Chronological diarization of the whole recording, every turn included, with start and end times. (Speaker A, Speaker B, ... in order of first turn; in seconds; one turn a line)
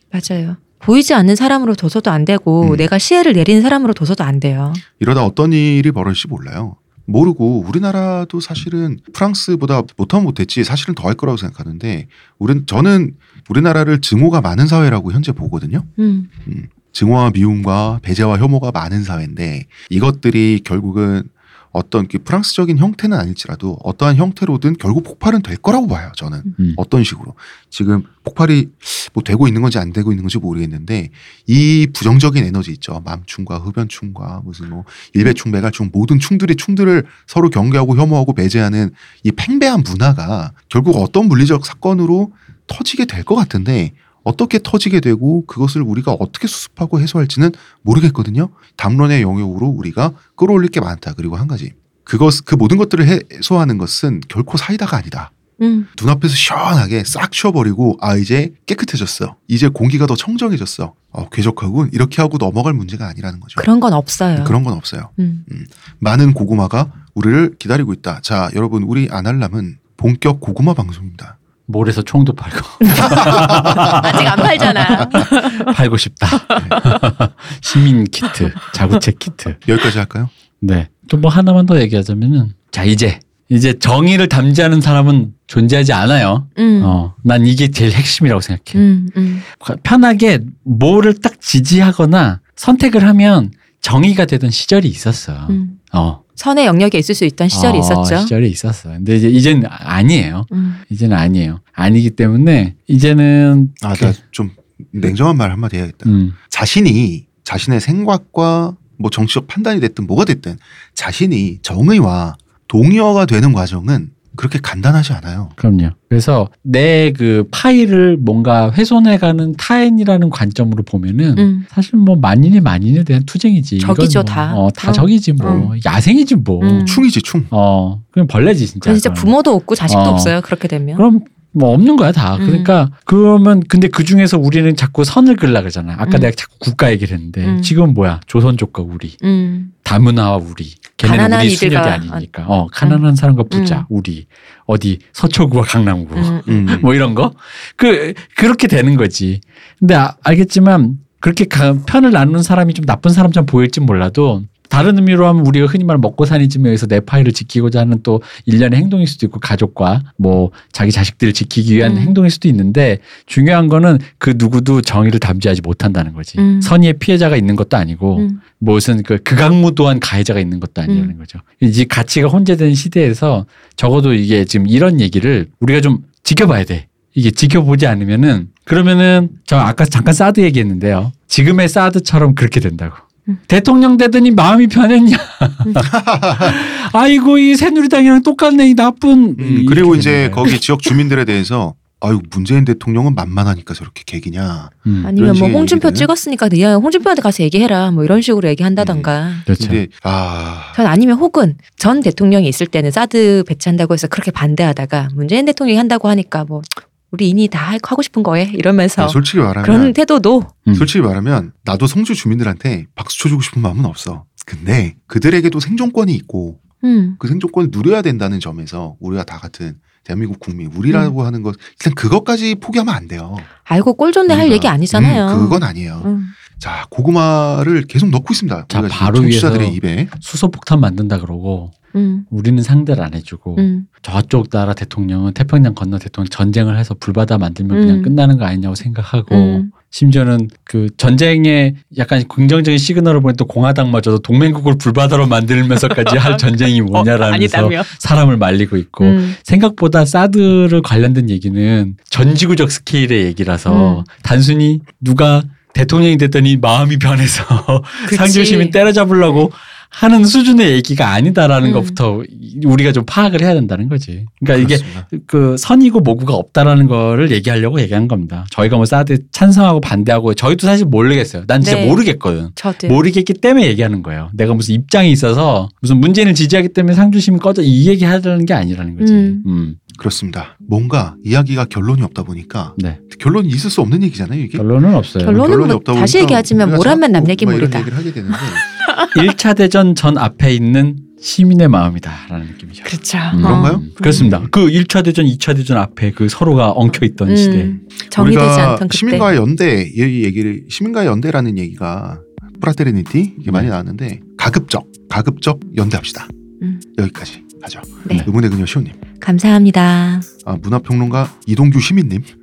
Speaker A: 0.1-4.8
Speaker B: 5.0-15.9
Speaker A: 16.0-16.3
Speaker B: 16.5-55.3
Speaker A: 55.6-55.9
Speaker B: 56.0-63.7
Speaker A: 63.6-64.6
Speaker B: 64.4-71.4
Speaker A: 65.2-65.4
Speaker C: 71.7-79.6
Speaker A: 72.8-75.8
Speaker B: 73.0-74.2
Speaker A: 76.4-77.0
Speaker B: 76.5-76.8
Speaker B: 79.7-80.3
Speaker C: 80.6-88.8
Speaker A: 86.6-87.0
Speaker A: 88.8-89.5
Speaker C: 89.5-96.2
Speaker A: 95.5-95.8
Speaker A: 96.4-98.3
Speaker C: 97.5-104.2
Speaker A: 100.5-100.8
Speaker B: 103.8-115.6
Speaker C: 106.0-106.4
Speaker C: 115.6-126.9
Speaker A: 121.4-121.7
Speaker A: 123.8-125.7
Speaker B: 125.4-125.8
Speaker A: 126.6-127.1
Speaker B: 126.8-127.5
Speaker C: 127.5-129.3
Speaker A: 128.8-131.0
Speaker C: 129.9-130.3
Speaker C: 130.9-139.2
Speaker A: 132.4-132.7
Speaker A: 137.4-137.8
Speaker A: 139.2-139.7
Speaker C: 139.8-190.6
Speaker A: 141.0-142.3
Speaker A: 142.8-143.8
Speaker A: 146.2-146.7
Speaker B: 146.5-146.9
Speaker A: 161.8-162.2
Speaker A: 166.4-166.8
Speaker A: 170.9-171.1
Speaker B: 185.8-186.6
Speaker B: 189.4-196.1
Speaker C: 194.9-195.1
Speaker A: 195.0-199.5
Speaker B: 198.8-200.8
Speaker C: 199.5-199.8
Speaker A: 200.8-210.6
Speaker B: 209.0-209.9
Speaker B: 210.7-216.6
Speaker A: 216.8-217.2
Speaker B: 217.2-223.5
Speaker A: 223.7-226.3
Speaker B: 224.3-230.1
Speaker C: 228.7-231.8
Speaker A: 231.9-232.3
Speaker C: 232.3-279.8
Speaker A: 233.6-233.9
Speaker A: 237.7-238.2
Speaker A: 239.3-239.7
Speaker A: 245.7-247.9
Speaker A: 249.0-249.4
Speaker A: 253.7-254.1
Speaker A: 258.0-258.8
Speaker A: 261.6-262.0
Speaker B: 264.6-265.1
Speaker A: 271.6-273.0
Speaker A: 279.0-279.4
Speaker B: 279.9-284.6
Speaker C: 284.6-285.4
Speaker A: 285.2-288.4
Speaker B: 285.3-288.6
Speaker C: 289.1-297.8
Speaker A: 292.9-294.3
Speaker B: 293.4-294.5
Speaker A: 297.3-299.3
Speaker B: 298.1-306.3
Speaker B: 307.0-309.0
Speaker A: 309.2-310.3
Speaker B: 310.5-312.3